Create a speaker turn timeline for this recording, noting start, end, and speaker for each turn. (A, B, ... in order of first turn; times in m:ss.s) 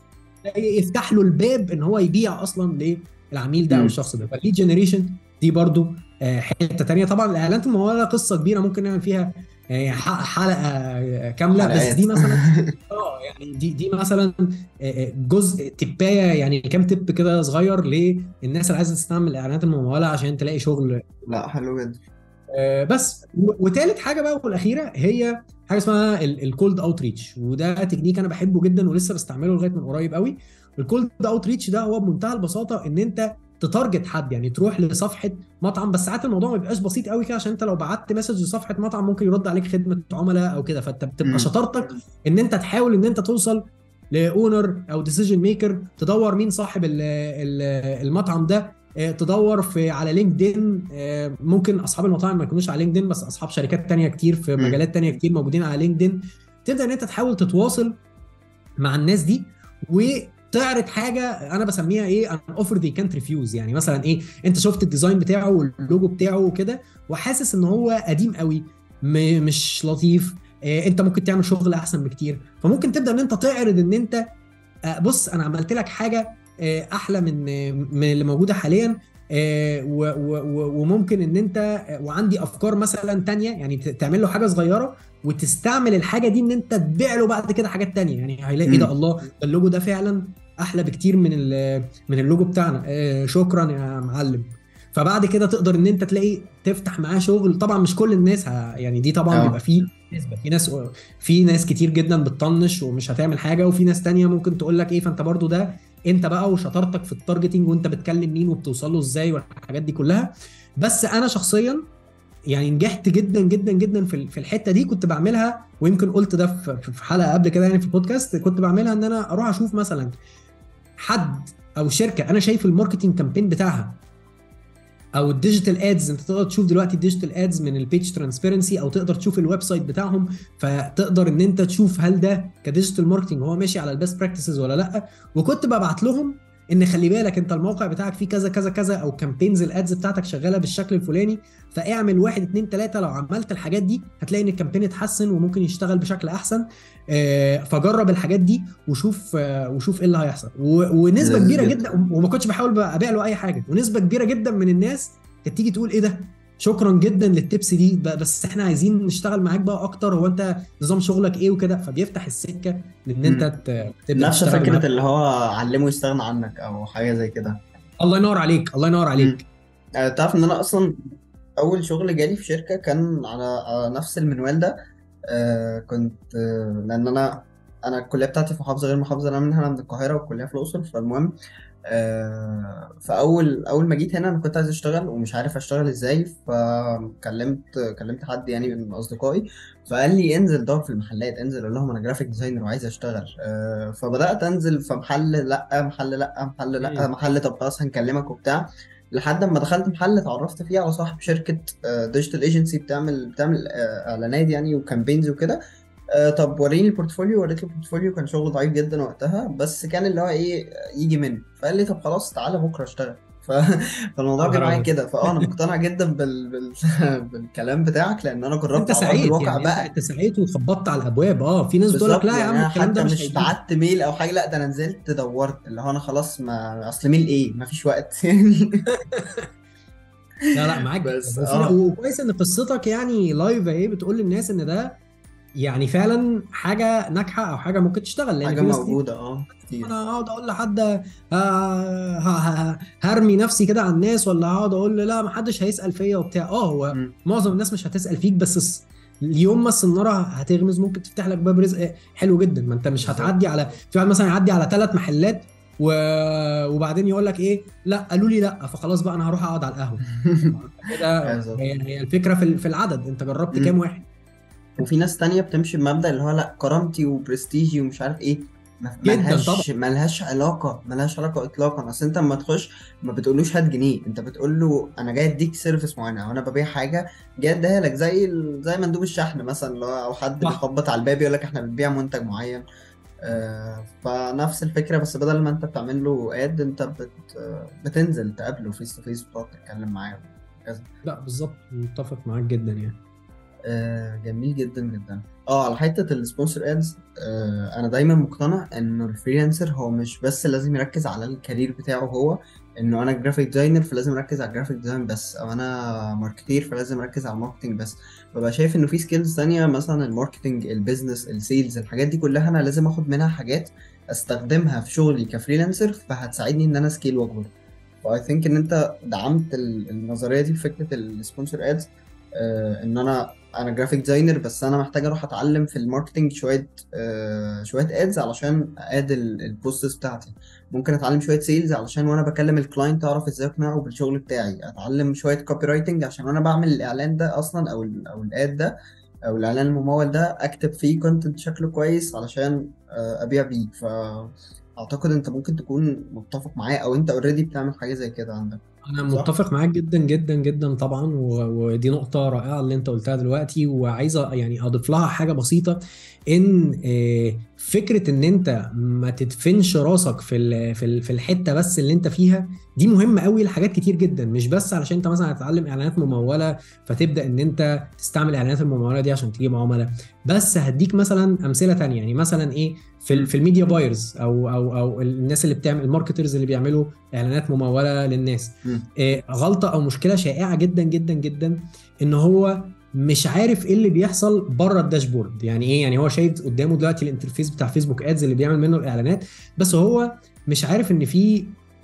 0:00.4-0:21.1 A
0:11.6-0:12.8 B
0:21.3-0:22.0 B
0:22.5-0:58.0 A
0:41.2-0:41.5 B
0:58.8-1:14.2 A
1:14.9-1:51.8 A
1:28.7-1:28.9 B
1:39.3-1:39.6 B
1:52.5-2:00.1 A
2:01.0-2:04.0 A
2:05.2-2:44.9 A
2:31.2-2:31.9 B
2:43.2-2:43.5 B
2:44.2-2:47.6 B
2:48.0-2:49.5 A
2:50.0-2:51.0 B
2:51.6-2:54.8 B
2:55.3-3:01.3 B
3:01.9-3:25.6 B
3:16.8-3:17.1 A
3:26.1-3:39.9 B
3:34.4-3:35.5 A
3:38.8-3:43.5 A
3:41.9-3:48.9 B
3:49.0-3:49.5 A
3:50.5-3:55.0 A
3:51.0-3:51.8 B
3:55.6-3:59.0 A
3:58.4-3:59.9 B
3:59.8-4:24.1 A
4:13.0-4:13.4 B
4:20.1-4:20.6 B
4:21.2-4:21.7 B
4:24.8-4:42.6 B
4:29.0-4:29.7 A
4:43.2-4:50.9 B
4:51.0-4:53.0 A
4:53.7-5:38.8 B
5:39.3-5:49.3 B
5:48.9-6:31.6 A